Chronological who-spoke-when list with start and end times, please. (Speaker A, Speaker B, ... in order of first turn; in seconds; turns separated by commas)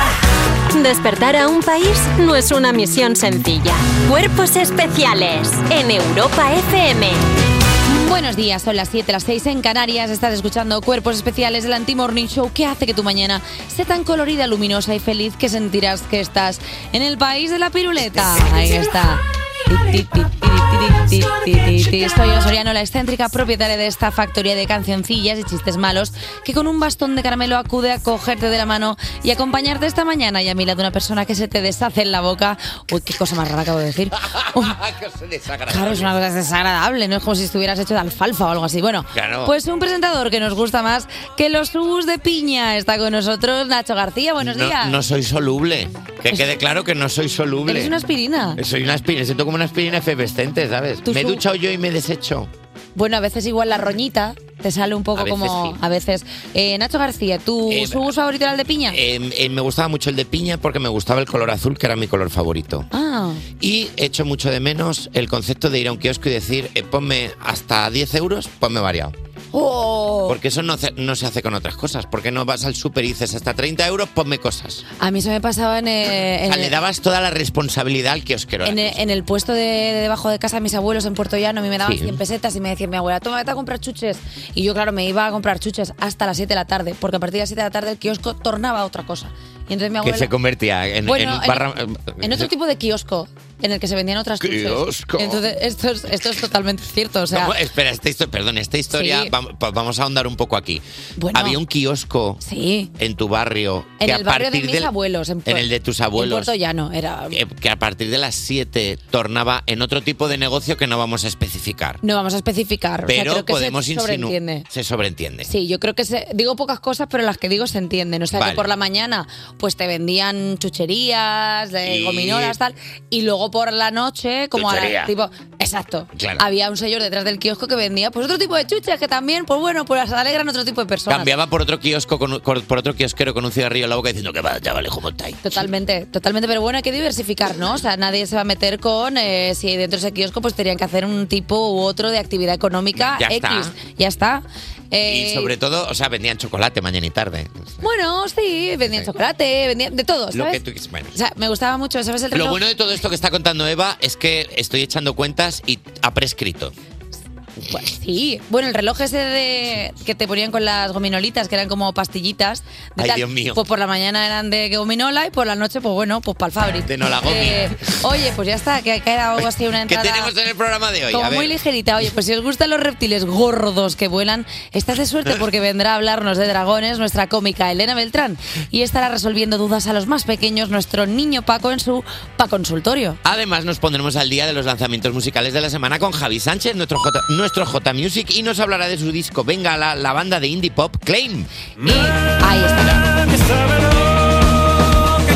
Speaker A: 0.7-7.2, Speaker B: 7.9-34.8, Speaker C: 34.3-36.1, Speaker B: 35.7-45.0, Speaker C: 39.1-39.5, Speaker C: 44.4-48.0, Speaker B: 47.6-48.6, Speaker C: 48.6-52.5, Speaker B: 51.0-51.4, Speaker B: 53.0-59.0, Speaker C: 55.1-55.8, Speaker C: 57.7-58.1, Speaker C: 58.9-62.9, Speaker B: 62.9-63.4, Speaker C: 63.6-69.1, Speaker B: 69.5-70.3, Speaker C: 70.3-74.8, Speaker B: 75.0-76.7, Speaker C: 76.5-79.0, Speaker B: 78.6-90.3, Speaker C: 81.8-82.2, Speaker C: 90.0-92.5, Speaker B: 91.0-91.6, Speaker B: 92.2-97.5, Speaker C: 94.4-95.4, Speaker C: 97.3-100.8, Speaker B: 98.9-99.3, Speaker B: 101.2-101.6, Speaker C: 101.3-102.4, Speaker B: 102.4-102.9, Speaker C: 103.0-104.9, Speaker B: 104.0-107.4, Speaker C: 105.5-106.5, Speaker C: 107.3-112.0, Speaker B: 112.0-114.7, Speaker C: 113.1-115.5, Speaker B: 115.5-131.3, Speaker C: 118.3-118.6, Speaker C: 121.8-122.5, Speaker C: 124.5-125.1, Speaker C: 126.2-126.4, Speaker C: 131.1-135.4, Speaker B: 135.4-145.5, Speaker C: 142.9-143.7, Speaker C: 145.0-147.7, Speaker B: 147.8-150.6, Speaker C: 150.3-151.2, Speaker B: 151.1-152.6, Speaker C: 152.3-156.7, Speaker B: 157.7-170.3, Speaker C: 163.0-163.6, Speaker C: 166.8-167.9, Speaker C: 169.9-171.5, Speaker B: 171.1-183.2, Speaker C: 183.2-191.5, Speaker B: 191.8-193.1